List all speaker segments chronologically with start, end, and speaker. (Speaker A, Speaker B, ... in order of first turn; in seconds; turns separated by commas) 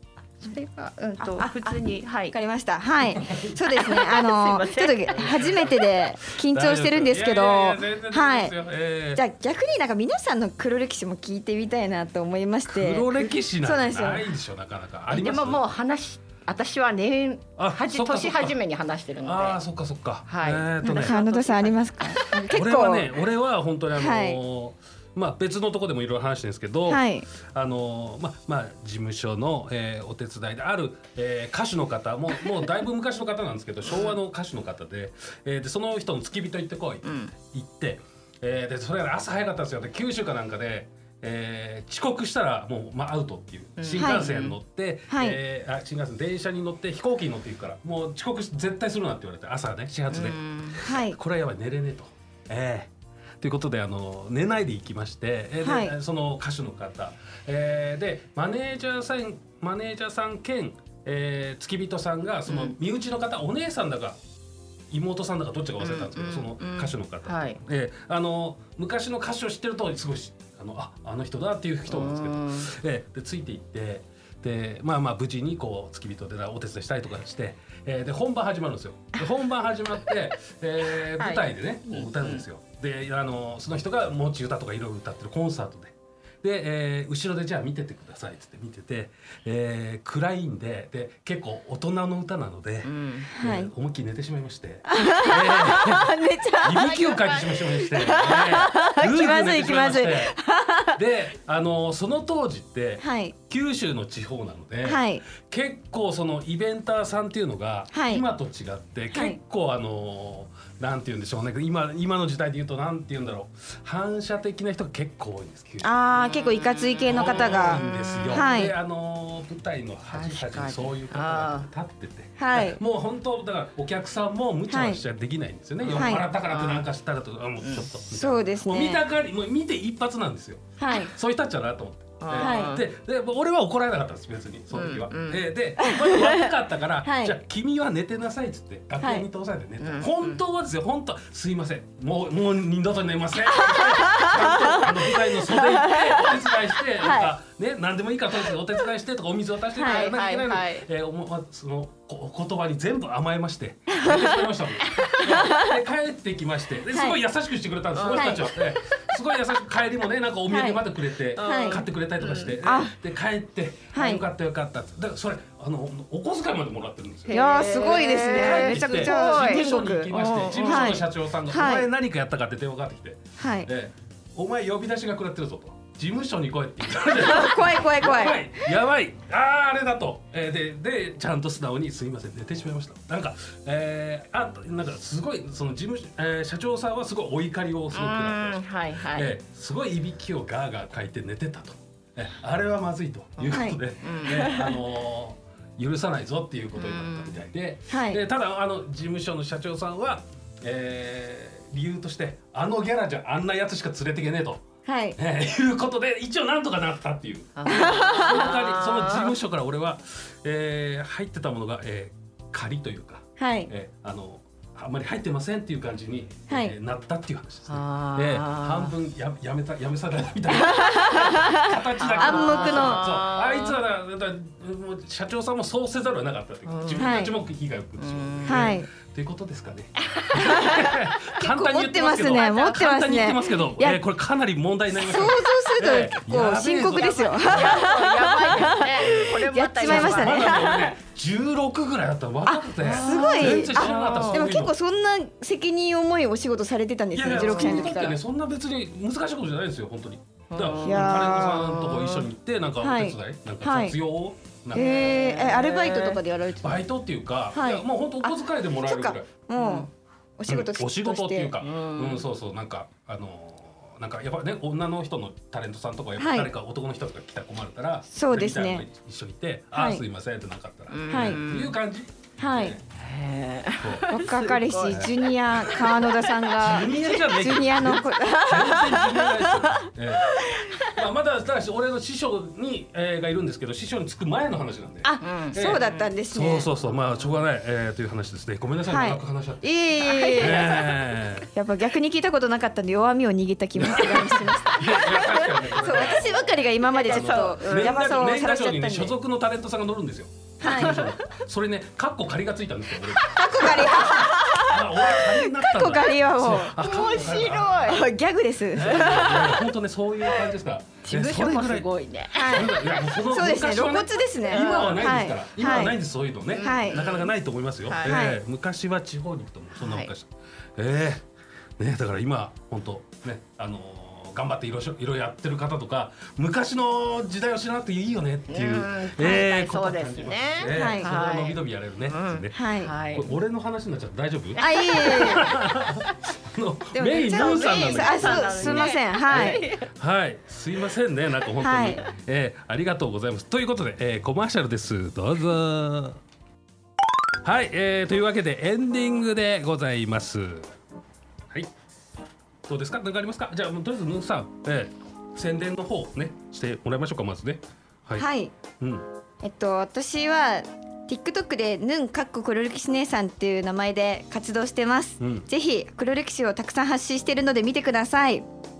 Speaker A: 0.4-2.3, Speaker B: 1.2-8.5, Speaker A: 3.7-5.7, Speaker C: 6.4-9.2, Speaker B: 9.1-14.3, Speaker C: 12.7-15.6, Speaker A: 15.1-19.6, Speaker C: 17.6-18.6, Speaker C: 19.2-21.2, Speaker A: 20.3-21.9, Speaker B: 20.8-23.2, Speaker C: 22.5-64.2, Speaker B: 23.9-24.4, Speaker B: 26.9-27.3, Speaker A: 33.9-34.1, Speaker A: 37.0-37.3, Speaker A: 43.8-44.6, Speaker B: 44.0-44.3, Speaker B: 45.1-45.4, Speaker A: 50.1-50.8, Speaker B: 50.8-51.2, Speaker B: 55.6-55.9, Speaker A: 62.5-62.8, Speaker C: 64.9-100.3, Speaker A: 65.8-67.6, Speaker A: 71.9-72.7, Speaker A: 81.2-82.4, Speaker A: 92.8-93.3, Speaker B: 93.4-93.7, Speaker B: 94.9-101.0, Speaker A: 96.7-98.4, Speaker C: 100.9-115.9, Speaker B: 103.0-103.3, Speaker B: 104.8-105.2, Speaker B: 107.9-108.2, Speaker B: 109.1-109.4, Speaker B: 115.8-118.7, Speaker A: 116.3-118.5, Speaker C: 117.1-204.6, Speaker A: 120.1-121.7, Speaker B: 122.4-122.8, Speaker B: 124.7-125.0, Speaker A: 125.8-126.9, Speaker B: 126.0-126.3, Speaker B: 128.1-129.0, Speaker B: 130.8-131.1, Speaker A: 132.2-132.8, Speaker B: 132.4-132.8, Speaker A: 134.7-135.5, Speaker B: 135.8-136.5, Speaker B: 137.0-137.4, Speaker B: 139.0-139.2, Speaker A: 139.8-140.4, Speaker B: 143.5-147.3, Speaker B: 149.7-150.1, Speaker A: 149.8-150.8, Speaker B: 153.9-154.4, Speaker B: 155.2-155.7, Speaker B: 156.9-157.2, Speaker A: 157.9-158.6, Speaker B: 158.1-158.5, Speaker B: 160.5-160.8, Speaker A: 161.3-162.6, Speaker B: 161.4-161.8, Speaker B: 162.6-162.9, Speaker B: 163.9-164.2, Speaker A: 167.2-170.9, Speaker B: 167.3-171.9, Speaker B: 173.4-173.7, Speaker B: 177.1-178.7, Speaker A: 187.9-189.3, Speaker A: 193.4-194.5, Speaker B: 193.5-194.7, Speaker A: 196.8-197.3, Speaker B: 197.9-198.2, Speaker B: 204.8-205.2, Speaker C: 205.2-237.9, Speaker A: 207.6-209.3, Speaker B: 207.7-208.4, Speaker B: 213.4-213.7, Speaker B: 216.5-216.7, Speaker A: 217.7-218.9, Speaker B: 220.5-223.1, Speaker A: 222.0-223.8, Speaker A: 226.7-227.2, Speaker B: 227.0-227.3, Speaker A: 228.0-228.7, Speaker B: 228.4-228.9, Speaker A: 230.2-230.6, Speaker B: 230.3-234.0, Speaker B: 234.9-240.9, Speaker A: 236.9-240.6, Speaker C: 239.0-239.3, Speaker C: 239.8-244.7, Speaker B: 242.4-248.2, Speaker A: 242.8-244.5, Speaker C: 247.1-254.9, Speaker A: 247.2-248.0, Speaker A: 250.5-252.3, Speaker B: 250.8-251.8, Speaker B: 252.8-254.0, Speaker A: 254.7-256.2, Speaker B: 254.7-256.9, Speaker C: 256.6-259.3, Speaker B: 257.5-261.5, Speaker A: 259.6-259.9, Speaker C: 260.5-272.8, Speaker A: 261.6-262.2, Speaker B: 266.2-266.5, Speaker B: 268.1-268.9, Speaker B: 269.7-270.0, Speaker A: 270.9-271.8, Speaker B: 271.1-271.4, Speaker B: 272.4-272.8, Speaker A: 273.0-275.1, Speaker C: 273.8-276.0, Speaker B: 274.1-280.8, Speaker C: 276.6-289.7, Speaker B: 285.0-286.7, Speaker A: 285.2-286.1, Speaker A: 286.9-287.4, Speaker B: 288.9-291.0, Speaker A: 290.0-290.8, Speaker C: 290.4-291.5, Speaker B: 291.5-299.1, Speaker C: 293.7-296.4, Speaker A: 296.8-298.0, Speaker C: 297.0-308.0, Speaker B: 300.6-301.0, Speaker A: 300.6-301.3, Speaker B: 303.3-306.8, Speaker A: 303.6-304.1, Speaker A: 306.8-308.1, Speaker B: 307.8-309.6, Speaker C: 308.7-321.2, Speaker A: 308.8-309.5, Speaker A: 310.3-312.8, Speaker B: 312.3-312.7, Speaker B: 313.3-316.0, Speaker A: 314.5-315.2, Speaker A: 316.5-317.3, Speaker B: 316.6-317.0, Speaker A: 317.9-318.2, Speaker B: 318.1-318.4, Speaker A: 319.8-320.1, Speaker C: 321.8-332.6, Speaker A: 328.5-333.3, Speaker B: 330.7-331.1, Speaker B: 332.5-332.9, Speaker C: 333.1-346.2, Speaker A: 334.6-335.6, Speaker B: 334.6-335.5, Speaker B: 336.9-339.6, Speaker A: 337.3-339.9, Speaker B: 341.6-342.0, Speaker C: 347.4-350.7, Speaker C: 352.7-358.3, Speaker B: 358.2-358.5, Speaker C: 358.8-359.1, Speaker B: 359.4-368.4, Speaker C: 365.2-365.4